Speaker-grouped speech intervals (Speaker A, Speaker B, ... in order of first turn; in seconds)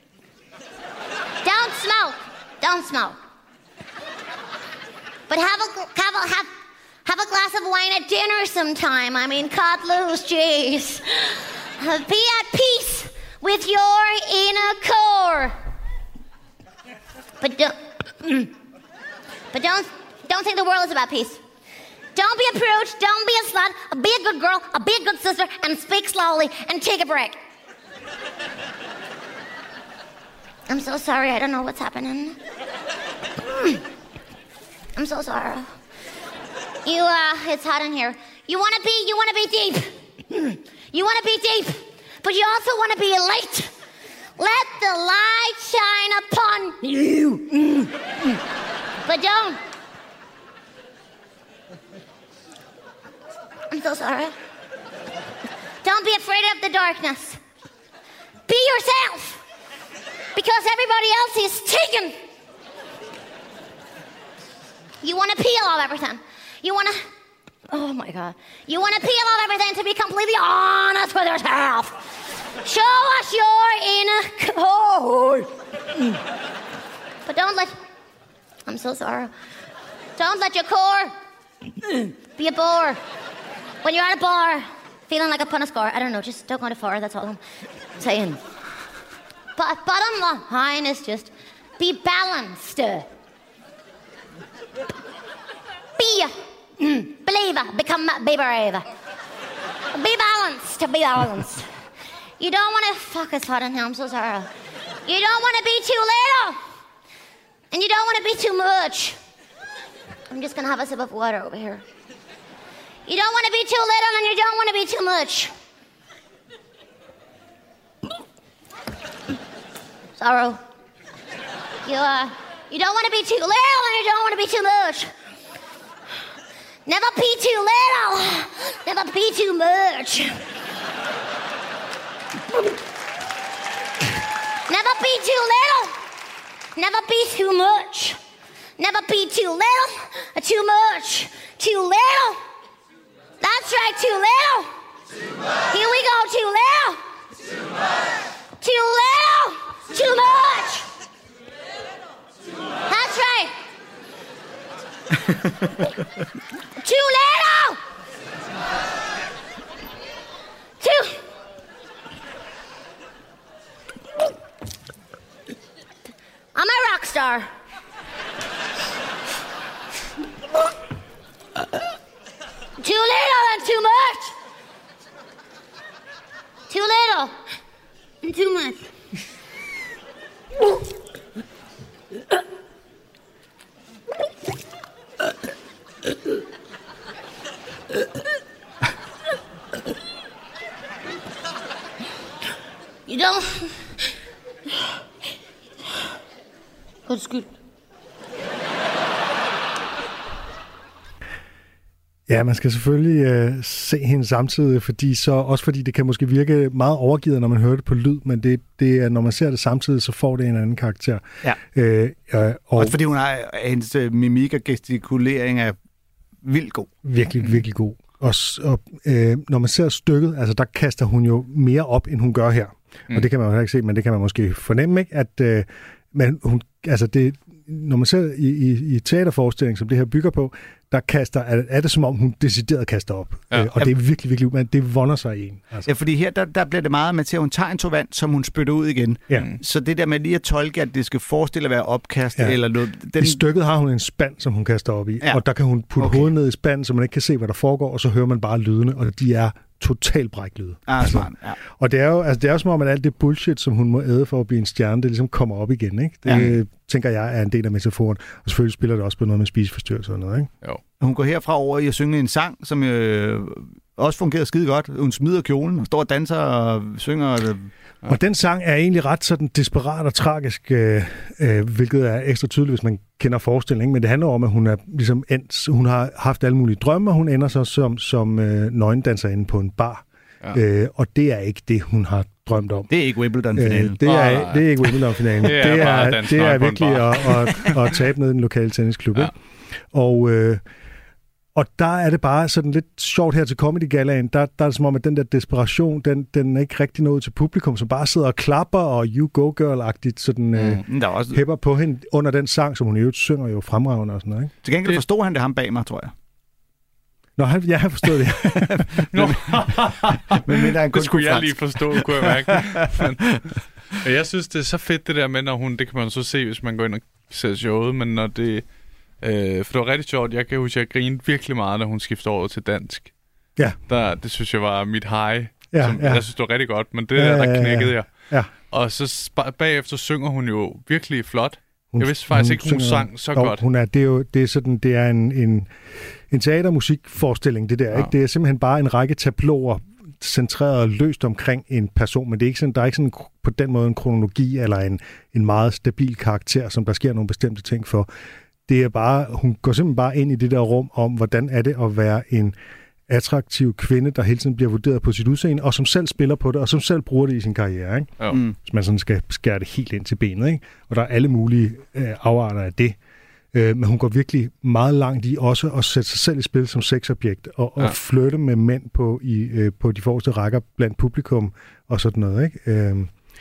Speaker A: 1.4-3.2, 5.3-6.5, 7.0-15.6, 17.4-18.5, 19.5-21.4, 22.1-27.4, 30.7-32.4, 33.5-33.8, 35.0-35.7, 36.9-43.7, 44.4-48.4, 49.1-49.6, 53.7-54.3, 55.8-57.4, 58.5-59.4, 60.4-62.2, 65.0-67.0, 67.7-72.0, 72.6-75.5, 77.3-77.7, 78.7-79.3, 80.2-81.1, 81.8-83.0, 83.8-87.4, 88.0-88.4, 89.6-93.1, 96.0-98.9, 99.9-101.7, 102.4-104.5, 105.1-106.6, 107.7-109.2, 110.3-111.8, 113.1-115.5, 120.2-120.6, 121.8-125.1, 126.9-130.3, 134.7-135.9, 136.8-138.2, 138.8-142.4, 143.4-144.7, 145.7-147.0, 148.6-150.9, 152.9-153.5, 156.8-157.8, 160.8-161.2, 166.6-167.5, 172.8-174.3, 176.7-177.3, 178.2-178.8, 193.1-193.8, 197.1-197.5
Speaker B: 202.3-213.0, 217.0-235.9, 243.2-260.5, 268.0-282.9, 283.6-289.3, 289.9-290.6, 291.6-304.5, 307.4-309.2, 325.7-326.3, 327.2-328.5, 331.9-335.7, 336.3-348.1, 348.7-352.6, 353.1-363.0, 363.5-373.1
Speaker C: 212.8-215.8, 216.4-216.9, 235.9-243.4, 246.0-246.3, 250.9-251.6, 256.3-256.6, 261.0-267.7, 282.9-284.0, 300.6-301.4, 304.6-306.1, 309.0-309.6, 310.3-313.4
Speaker D: 233.5-233.8, 284.0-287.8, 309.1-318.6, 319.2-323.1, 323.9-328.1, 328.7-333.6